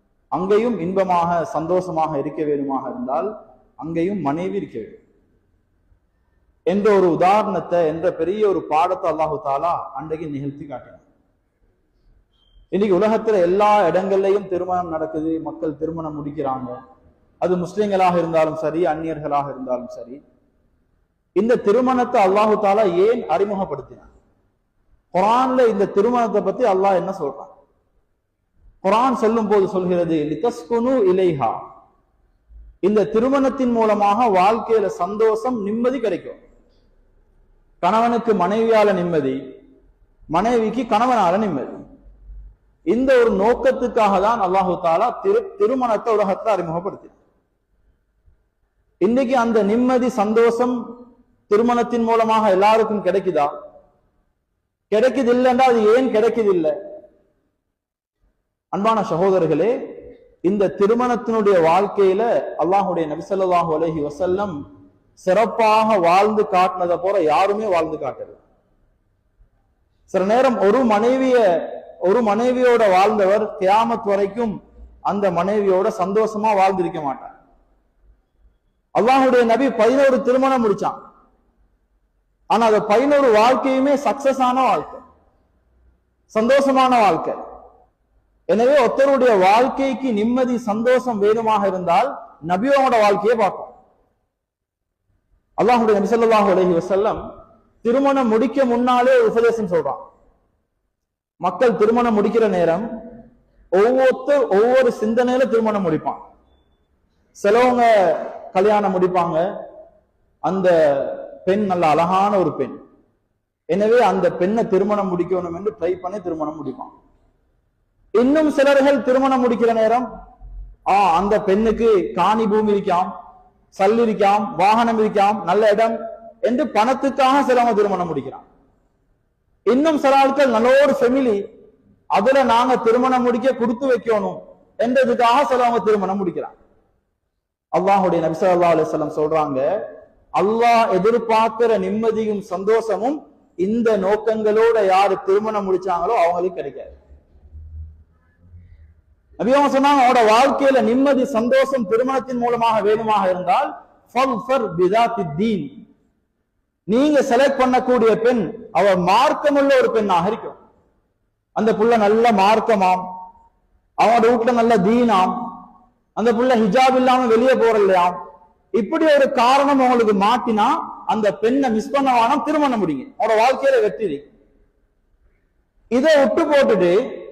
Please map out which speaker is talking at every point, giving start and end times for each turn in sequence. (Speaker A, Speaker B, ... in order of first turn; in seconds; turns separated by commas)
Speaker A: 0.3-3.3, Speaker A: 3.8-5.0, Speaker A: 6.7-11.0, Speaker A: 12.7-16.7, Speaker A: 17.4-20.2, Speaker A: 21.4-24.1, Speaker A: 25.1-27.5, Speaker A: 28.8-31.6, Speaker A: 32.8-36.4, Speaker A: 37.8-39.4, Speaker A: 40.3-41.8, Speaker A: 42.9-47.2, Speaker A: 49.0-50.7, Speaker A: 51.5-53.5, Speaker A: 54.9-56.7, Speaker A: 58.7-59.7, Speaker A: 60.4-64.6, Speaker A: 65.2-68.4, Speaker A: 70.1-71.4, Speaker A: 72.0-74.5, Speaker A: 75.1-77.3, Speaker A: 79.0-81.0, Speaker A: 82.5-85.0, Speaker A: 86.3-87.4, Speaker A: 88.5-93.7, Speaker A: 95.6-97.2, Speaker A: 97.8-100.0, Speaker A: 101.4-102.9, Speaker A: 103.7-106.2, Speaker A: 107.4-109.4, Speaker A: 110.4-112.8, Speaker A: 113.7-116.9, Speaker A: 118.2-120.0, Speaker A: 120.9-123.1, Speaker A: 123.7-128.4, Speaker A: 129.7-131.4, Speaker A: 132.1-136.5, Speaker A: 137.7-139.6, Speaker A: 140.3-146.9, Speaker A: 149.4-155.7, Speaker A: 156.9-160.6, Speaker A: 161.6-163.0, Speaker A: 164.0-165.3, Speaker A: 166.2-168.1, Speaker A: 168.8-174.2, Speaker A: 175.9-177.0